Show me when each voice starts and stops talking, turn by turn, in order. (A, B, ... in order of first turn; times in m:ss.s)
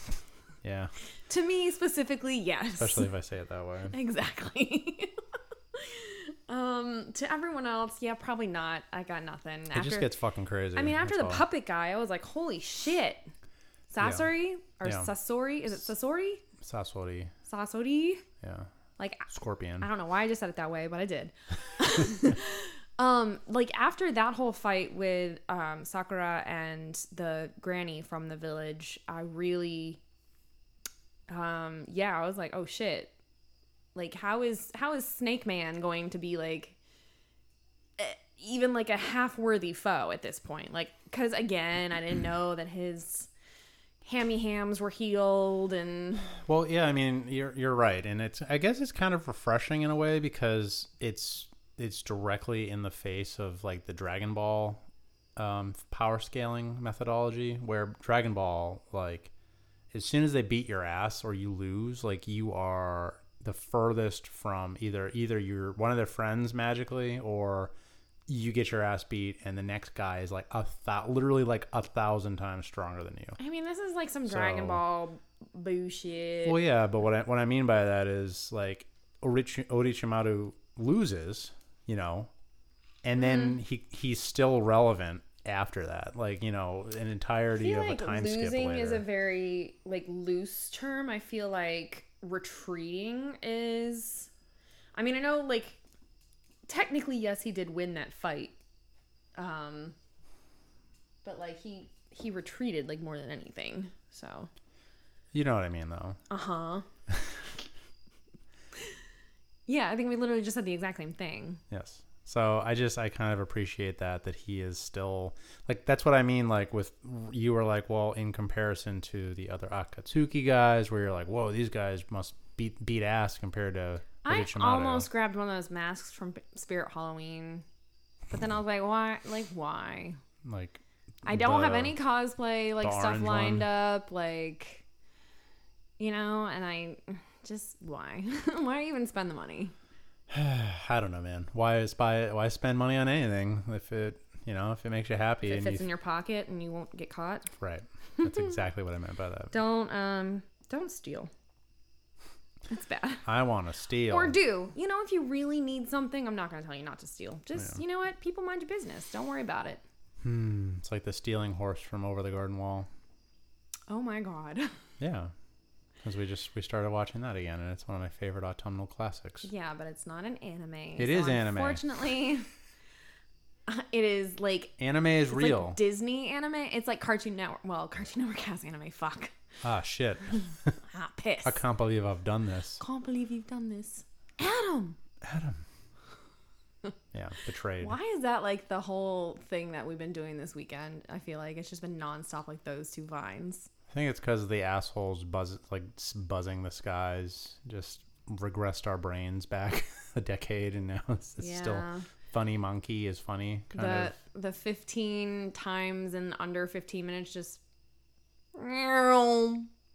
0:00.6-0:00.9 A
0:01.3-0:03.1 B
0:02.8-0:03.9 A
0:03.9-0:05.1 B
0:05.7-0:10.1 B
0:09.7-0:11.4 A
0:10.8-0:13.3 B
0:13.9-0:16.4 B
0:14.0-0:14.3 A
0:14.8-0:15.1 A
0:16.6-0:17.3 A
0:17.4-0:18.2 B
0:18.4-0:18.7 A
0:19.0-0:19.3 B
0:19.3-0:19.9 A
0:19.8-0:30.0 B
0:31.3-0:33.1 B
0:33.9-0:36.8 B
0:38.0-0:43.3 B
0:44.0-0:46.4 B
0:46.4-0:54.8 A
0:55.4-0:59.3 A
0:59.9-1:07.7 A
1:08.3-1:13.4 A
1:13.4-1:16.6 B
1:14.2-1:14.8 A
1:16.4-1:22.3 A
1:23.0-1:29.0 A
1:27.6-1:34.3 B
1:35.0-1:35.8 B
1:36.7-1:38.5 B
1:39.4-1:39.9 B
1:41.2-1:44.5 B
1:45.3-1:46.2 A
1:46.3-1:46.8 B
1:49.7-1:51.6 B
1:51.7-2:05.1 A
2:04.2-2:07.6 B
2:08.3-2:10.2 B
2:10.4-2:11.9 A
2:11.2-2:14.8 B
2:12.8-2:13.6 A
2:16.0-2:19.7 B
2:20.3-2:25.8 A
2:25.4-2:27.5 B
2:27.6-2:29.5 A
2:28.2-2:28.5 B
2:29.5-2:31.3 B
2:32.7-2:33.2 B
2:33.2-2:34.3 A
2:34.1-2:39.8 B
2:40.2-2:42.9 A
2:43.9-2:44.7 B
2:45.0-2:45.3 A
2:46.0-2:49.5 A
2:49.4-2:52.5 B
2:51.0-2:51.8 A
2:53.7-2:54.8 B
2:54.8-2:55.8 A
2:55.3-2:59.3 B
2:59.6-3:00.8 A
3:00.8-3:01.6 B
3:01.4-3:02.8 A
3:02.8-3:05.0 B
3:05.2-3:05.6 A
3:07.1-3:07.9 A
3:07.8-3:13.7 B
3:13.9-3:24.2 A
3:21.4-3:22.1 B
3:23.7-3:27.6 B
3:28.5-3:29.7 B